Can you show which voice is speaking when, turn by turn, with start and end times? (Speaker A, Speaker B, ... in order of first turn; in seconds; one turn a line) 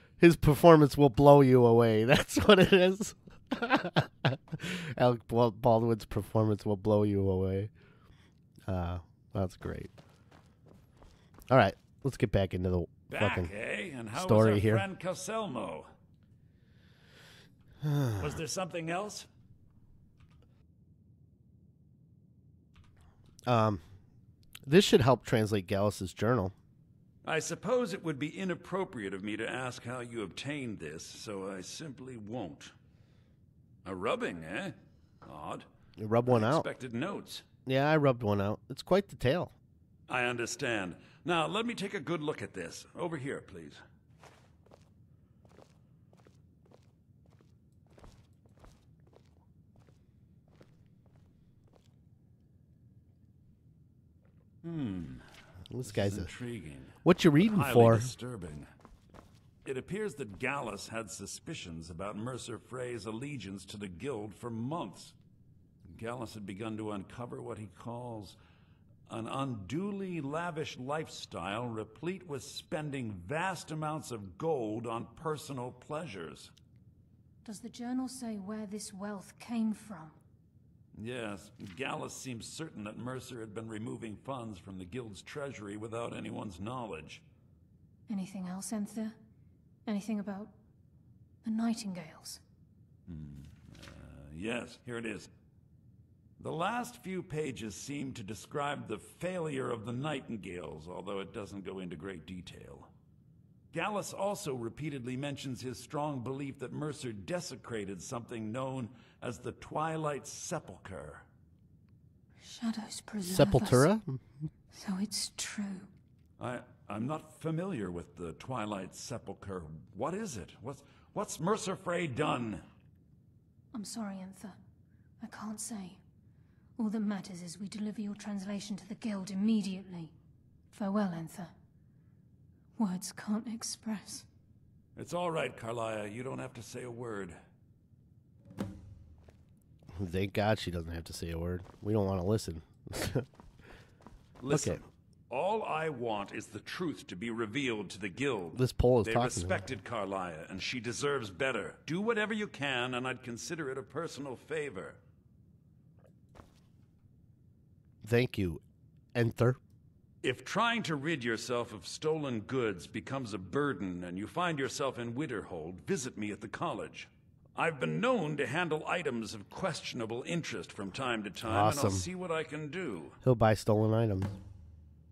Speaker A: 0.2-7.7
Speaker A: 8.7-9.9
Speaker A: 11.5-13.5
Speaker B: 13.1-15.9
Speaker A: 14.1-14.9
Speaker A: 17.8-18.4
Speaker B: 18.2-19.3
Speaker A: 23.5-23.8
Speaker A: 24.7-26.5
Speaker B: 27.2-32.7
Speaker B: 33.8-35.7
Speaker A: 36.0-36.7
Speaker B: 36.3-37.5
Speaker A: 37.7-39.5
Speaker B: 40.1-43.8
Speaker B: 54.6-55.3
Speaker A: 55.7-56.3
Speaker B: 55.8-58.7
Speaker A: 57.0-58.1
Speaker B: 59.6-65.1
Speaker B: 65.9-68.4
Speaker B: 69.1-76.5
Speaker C: 77.5-80.2
Speaker B: 81.0-87.2
Speaker C: 88.1-89.2
Speaker C: 89.9-90.5
Speaker C: 91.4-92.4
Speaker B: 93.1-95.3
Speaker B: 96.4-102.9
Speaker B: 103.7-111.2
Speaker C: 112.4-113.9
Speaker A: 113.2-114.2
Speaker C: 114.7-115.9
Speaker B: 116.4-122.6
Speaker C: 123.7-124.6
Speaker C: 125.2-126.0
Speaker C: 126.8-130.1
Speaker C: 130.7-131.5
Speaker C: 132.8-134.2
Speaker B: 134.9-137.4
Speaker A: 139.9-143.3
Speaker B: 144.4-155.0
Speaker A: 144.5-144.8
Speaker A: 148.5-149.7
Speaker A: 158.0-158.6
Speaker A: 159.1-159.6
Speaker B: 160.2-173.2
Speaker A: 171.4-172.1
Speaker A: 173.2-174.4